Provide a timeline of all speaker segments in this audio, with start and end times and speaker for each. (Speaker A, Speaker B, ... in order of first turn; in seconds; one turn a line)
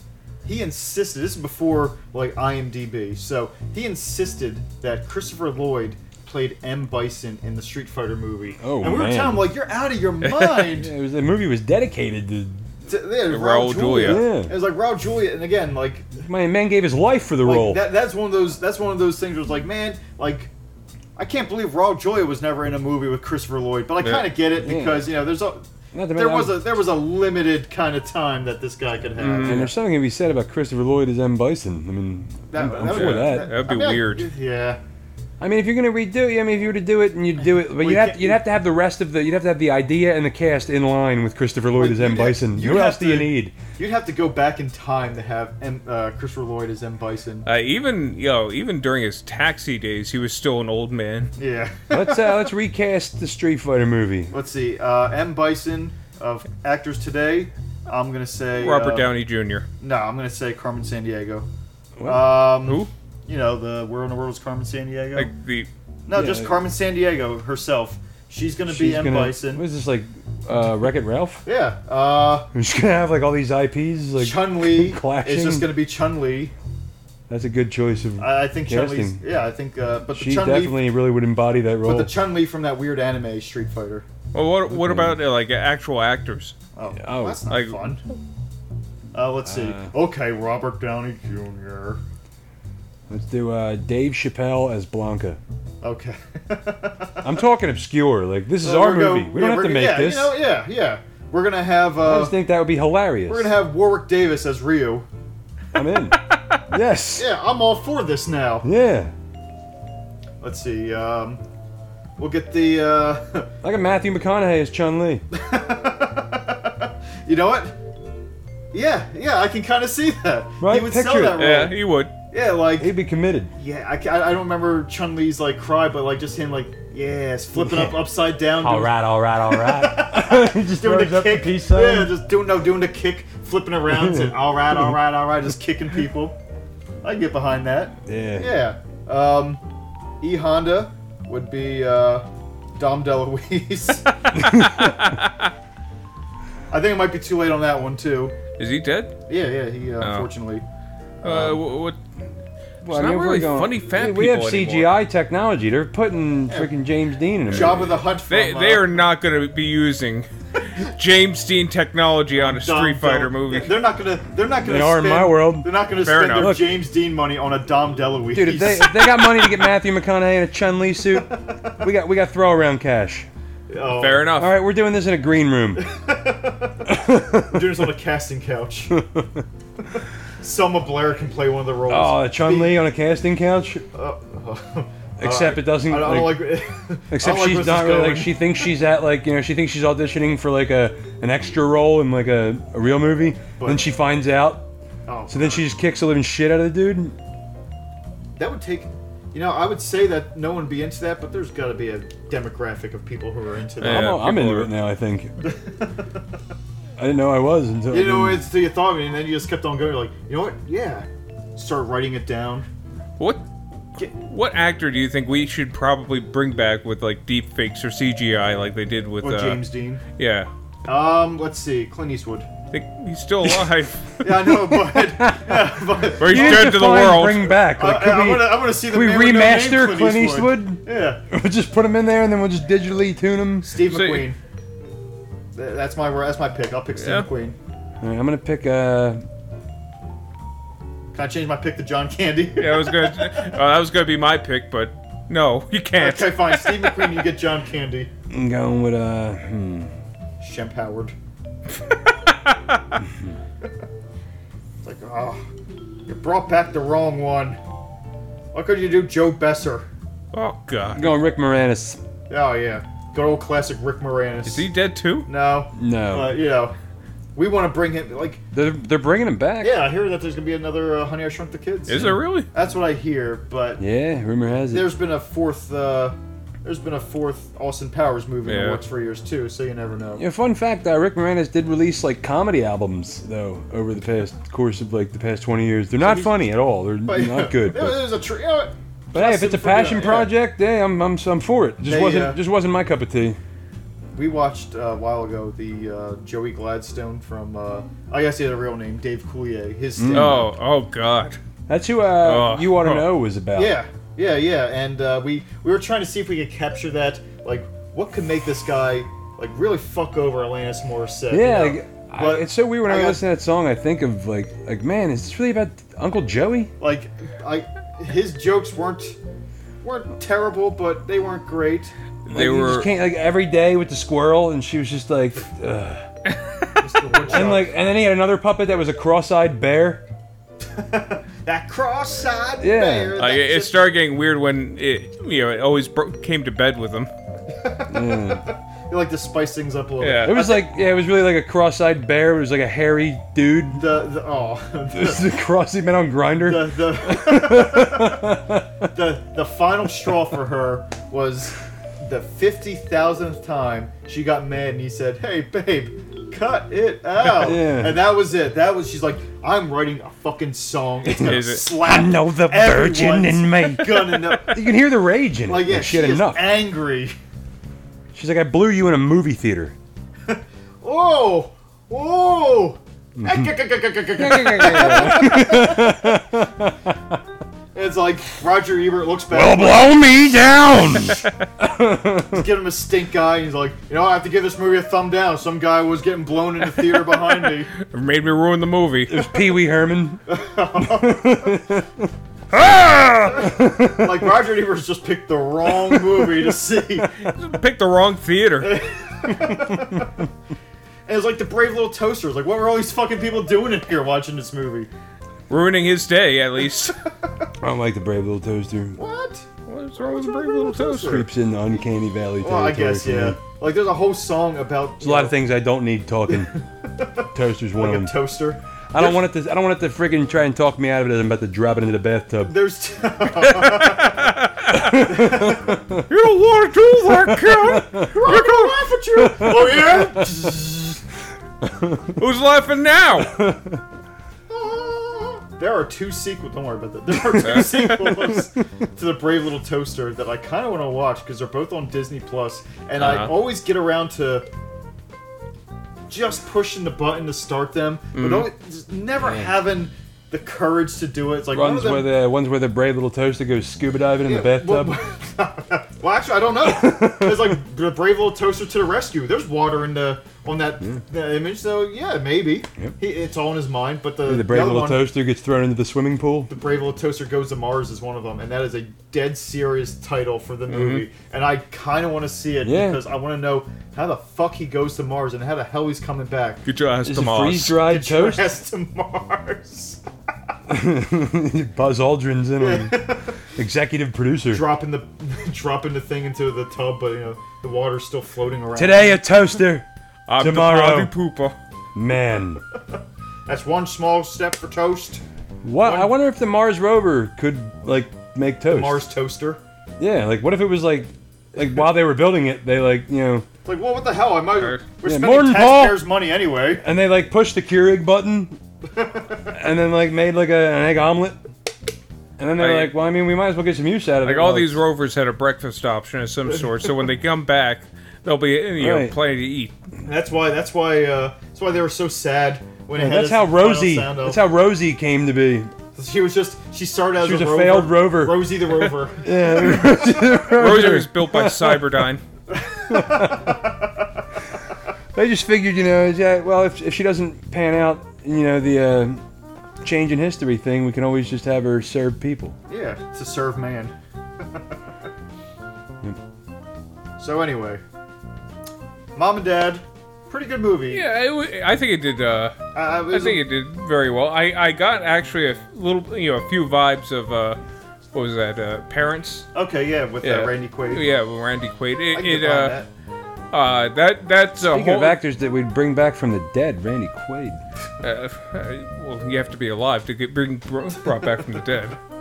Speaker A: 0.5-10.9
Speaker B: 8.6-9.5
Speaker C: 10.2-10.7
Speaker B: 10.7-12.7
Speaker A: 12.9-16.2
Speaker C: 13.3-14.2
Speaker B: 14.0-14.6
Speaker B: 16.3-17.8
Speaker A: 17.4-20.5
Speaker A: 21.2-29.8
Speaker C: 24.0-24.3
Speaker B: 24.6-25.1
Speaker B: 25.9-26.7
Speaker C: 29.2-29.7
Speaker B: 29.4-33.5
Speaker A: 32.5-34.8
Speaker C: 32.8-34.3
Speaker B: 35.4-43.5
Speaker A: 37.7-38.4
Speaker A: 41.8-47.5
Speaker C: 47.5-51.3
Speaker A: 51.4-52.5
Speaker B: 51.9-54.3
Speaker A: 54.3-59.1
Speaker C: 58.6-59.7
Speaker A: 59.8-61.5
Speaker B: 62.0-62.5
Speaker A: 62.0-65.3
Speaker C: 62.7-62.9
Speaker C: 65.2-65.7
Speaker A: 66.1-69.6
Speaker B: 66.1-66.6
Speaker B: 68.7-71.4
Speaker A: 71.5-72.5
Speaker B: 72.5-75.7
Speaker A: 74.2-76.5
Speaker B: 77.3-79.2
Speaker A: 78.2-80.9
Speaker B: 80.1-82.1
Speaker A: 81.8-84.1
Speaker C: 84.3-86.5
Speaker B: 84.7-85.2
Speaker A: 86.8-88.0
Speaker B: 87.0-87.4
Speaker C: 87.5-87.8
Speaker A: 89.1-92.0
Speaker B: 89.5-89.9
Speaker B: 93.1-95.4
Speaker A: 95.8-97.4
Speaker B: 97.2-100.4
Speaker A: 98.6-102.4
Speaker B: 102.0-103.5
Speaker A: 103.3-105.1
Speaker B: 105.7-106.2
Speaker C: 106.1-106.6
Speaker B: 106.7-107.3
Speaker A: 107.2-108.7
Speaker B: 108.6-109.1
Speaker A: 110.4-111.4
Speaker A: 112.2-113.5
Speaker B: 113.6-115.2
Speaker A: 115.3-117.8
Speaker A: 118.7-122.9
Speaker B: 120.6-121.5
Speaker C: 121.3-122.1
Speaker B: 122.8-123.5
Speaker A: 123.6-136.4
Speaker B: 127.6-132.1
Speaker B: 133.9-135.0
Speaker A: 137.0-139.6
Speaker B: 138.1-138.6
Speaker A: 140.2-142.2
Speaker A: 142.8-144.1
Speaker C: 144.2-145.5
Speaker B: 144.3-144.9
Speaker A: 146.7-148.4
Speaker C: 148.6-149.2
Speaker A: 149.3-150.7
Speaker C: 150.0-150.3
Speaker A: 151.2-151.6
Speaker C: 151.2-152.0
Speaker C: 152.8-154.9
Speaker B: 152.8-158.0
Speaker A: 157.5-159.0
Speaker C: 157.6-163.7
Speaker A: 162.4-169.6
Speaker B: 164.6-165.7
Speaker C: 166.0-166.6
Speaker B: 166.4-166.7
Speaker B: 168.3-173.3
Speaker A: 171.2-171.8
Speaker A: 173.7-174.3
Speaker C: 174.0-174.5
Speaker B: 174.4-175.8
Speaker A: 175.8-178.9
Speaker B: 176.9-177.8
Speaker B: 178.9-179.4
Speaker A: 180.4-182.8
Speaker B: 181.9-183.8
Speaker A: 183.9-188.4
Speaker B: 185.2-186.5
Speaker B: 187.1-194.7
Speaker A: 193.6-193.9
Speaker A: 195.1-195.7
Speaker B: 195.3-197.2
Speaker A: 198.4-204.2
Speaker C: 203.8-204.7
Speaker B: 203.8-205.3
Speaker A: 205.4-206.0
Speaker B: 207.0-208.4
Speaker A: 207.9-212.7
Speaker C: 213.2-213.4
Speaker C: 214.0-219.6
Speaker A: 219.2-220.0
Speaker C: 220.2-220.5
Speaker A: 220.9-222.5
Speaker C: 222.7-224.2
Speaker B: 223.4-223.7
Speaker A: 224.2-226.8
Speaker B: 224.4-233.8
Speaker C: 226.2-227.6
Speaker A: 227.8-231.2
Speaker A: 233.6-234.4
Speaker C: 233.9-234.3
Speaker A: 235.6-237.6
Speaker C: 237.0-237.3
Speaker B: 238.0-239.2
Speaker A: 241.1-243.5
Speaker C: 242.6-247.1
Speaker A: 246.0-248.1
Speaker B: 248.3-249.9
Speaker A: 250.4-251.1
Speaker C: 251.8-252.8
Speaker A: 254.8-255.4
Speaker A: 256.1-257.6
Speaker A: 258.5-259.9
Speaker C: 260.3-261.2
Speaker B: 260.9-262.0
Speaker A: 262.3-264.7
Speaker C: 264.5-265.3
Speaker A: 265.3-266.8
Speaker B: 265.8-266.4
Speaker A: 267.4-268.4
Speaker B: 268.5-269.9
Speaker A: 269.6-273.8
Speaker C: 271.9-272.5
Speaker B: 273.8-274.9
Speaker A: 274.7-280.2
Speaker C: 278.5-278.8
Speaker B: 280.2-288.1
Speaker A: 286.0-290.3
Speaker B: 289.1-293.4
Speaker A: 291.9-292.4
Speaker A: 294.2-300.5
Speaker B: 300.0-300.4
Speaker C: 300.1-301.4
Speaker B: 301.7-303.8
Speaker C: 302.2-303.1
Speaker A: 303.6-313.2
Speaker B: 311.3-316.7
Speaker A: 316.8-319.2
Speaker A: 319.8-321.9
Speaker C: 322.3-322.9
Speaker B: 322.3-326.1
Speaker A: 326.8-327.7
Speaker B: 327.2-330.0
Speaker A: 330.8-333.9
Speaker B: 332.6-333.2
Speaker C: 333.2-337.1
Speaker A: 337.5-340.7
Speaker B: 337.9-338.5
Speaker C: 340.0-340.4
Speaker B: 340.2-343.9
Speaker A: 343.8-345.3
Speaker B: 344.9-348.9
Speaker A: 346.4-348.4
Speaker A: 348.9-364.6
Speaker B: 357.2-358.0
Speaker B: 361.1-366.5
Speaker C: 361.2-361.6
Speaker A: 365.5-367.1
Speaker B: 368.1-369.8
Speaker A: 370.3-376.2
Speaker B: 373.2-373.5
Speaker B: 374.1-377.2
Speaker A: 377.8-380.1
Speaker B: 379.3-382.5
Speaker A: 382.2-387.7
Speaker C: 387.7-389.3
Speaker B: 389.1-390.2
Speaker A: 390.3-391.6
Speaker B: 390.8-394.3
Speaker A: 393.3-397.1
Speaker B: 395.8-396.4
Speaker B: 397.0-397.3
Speaker C: 397.2-398.8
Speaker A: 398.6-400.2
Speaker B: 399.4-400.0
Speaker A: 401.1-404.9
Speaker C: 405.5-407.0
Speaker B: 407.6-409.0
Speaker A: 409.0-409.5
Speaker C: 409.7-411.2
Speaker A: 410.0-411.8
Speaker B: 410.9-413.4
Speaker A: 412.4-415.4
Speaker B: 415.0-416.5
Speaker A: 416.3-419.2
Speaker B: 417.3-418.1
Speaker B: 418.9-422.6
Speaker A: 422.5-425.8
Speaker B: 423.4-424.0
Speaker C: 424.1-425.0
Speaker B: 424.7-426.0
Speaker C: 426.1-428.7
Speaker B: 427.1-428.1
Speaker A: 427.8-431.0
Speaker B: 429.1-430.5
Speaker B: 431.6-432.1
Speaker C: 432.2-433.4
Speaker B: 433.2-433.8
Speaker A: 434.5-444.5
Speaker B: 437.1-438.5
Speaker C: 437.4-437.7
Speaker C: 443.0-443.3
Speaker A: 446.1-452.1
Speaker C: 448.2-448.5
Speaker B: 449.2-449.5
Speaker B: 451.5-455.0
Speaker A: 454.2-465.1
Speaker B: 456.6-457.6
Speaker B: 464.3-466.5
Speaker A: 466.5-476.6
Speaker C: 470.7-471.1
Speaker B: 472.6-473.0
Speaker C: 476.7-477.8
Speaker B: 477.0-478.5
Speaker A: 477.8-480.0
Speaker B: 480.7-484.6
Speaker A: 482.6-483.4
Speaker A: 484.5-489.2
Speaker B: 488.8-489.9
Speaker C: 490.3-491.6
Speaker B: 490.4-491.1
Speaker B: 491.9-492.6
Speaker A: 493.5-495.2
Speaker B: 495.6-499.0
Speaker A: 495.8-496.1
Speaker A: 498.7-499.6
Speaker B: 500.0-503.5
Speaker A: 503.6-506.9
Speaker B: 505.1-506.1
Speaker B: 506.8-508.6
Speaker A: 508.9-509.6
Speaker B: 509.5-511.4
Speaker B: 512.4-514.8
Speaker C: 512.6-512.9
Speaker C: 514.2-519.7
Speaker B: 518.8-519.2
Speaker A: 520.1-524.4
Speaker B: 523.0-525.7
Speaker A: 526.0-530.1
Speaker B: 527.2-528.7
Speaker B: 529.2-532.0
Speaker C: 530.4-532.2
Speaker A: 532.5-533.9
Speaker B: 532.9-533.6
Speaker B: 535.1-539.2
Speaker B: 539.8-542.6
Speaker A: 542.7-544.6
Speaker A: 547.2-547.8
Speaker A: 549.2-551.0
Speaker C: 550.9-557.6
Speaker A: 552.7-553.4
Speaker C: 558.1-559.5
Speaker A: 559.5-561.0
Speaker C: 560.2-562.8
Speaker A: 562.1-562.9
Speaker C: 563.5-565.2
Speaker B: 564.6-567.6
Speaker C: 568.0-572.0